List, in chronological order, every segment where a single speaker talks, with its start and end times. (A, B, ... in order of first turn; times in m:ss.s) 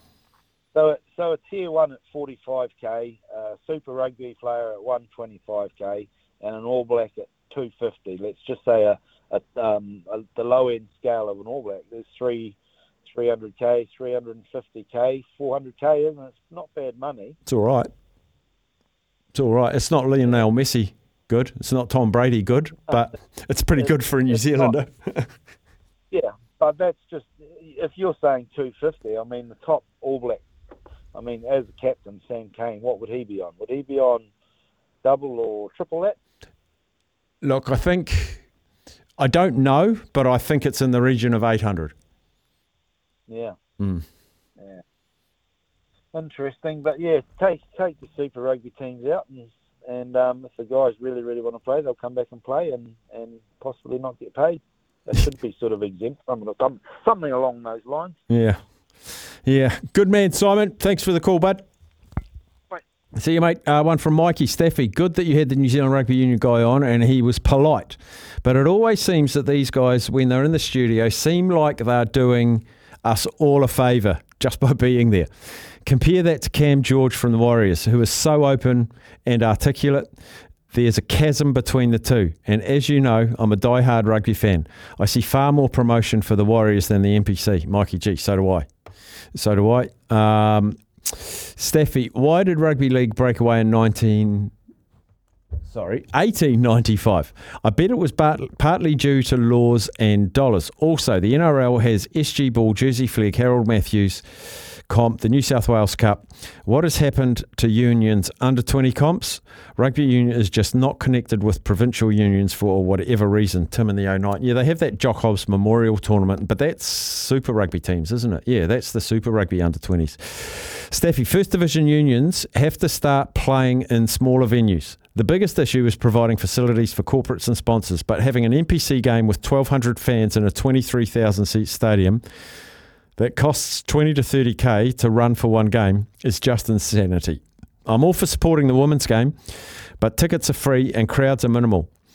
0:00.7-0:17.4 A
0:17.5-0:17.9 B
0:19.3-0:25.3 B
0:23.8-0:24.8 A
0:26.1-0:30.4 A
0:31.1-0:34.3 A
0:35.0-0:36.2 A
0:37.4-0:38.4 B
0:39.2-0:41.9 B
0:43.3-0:43.6 A
0:43.8-0:44.0 B
0:46.1-0:58.2 A
0:58.3-0:58.6 B
0:59.4-1:01.7 B
1:03.2-1:15.3 B
1:15.8-1:20.1 B
1:20.7-1:28.7 B
1:29.3-1:34.5 B
1:35.7-2:12.2 B
2:13.2-2:21.9 B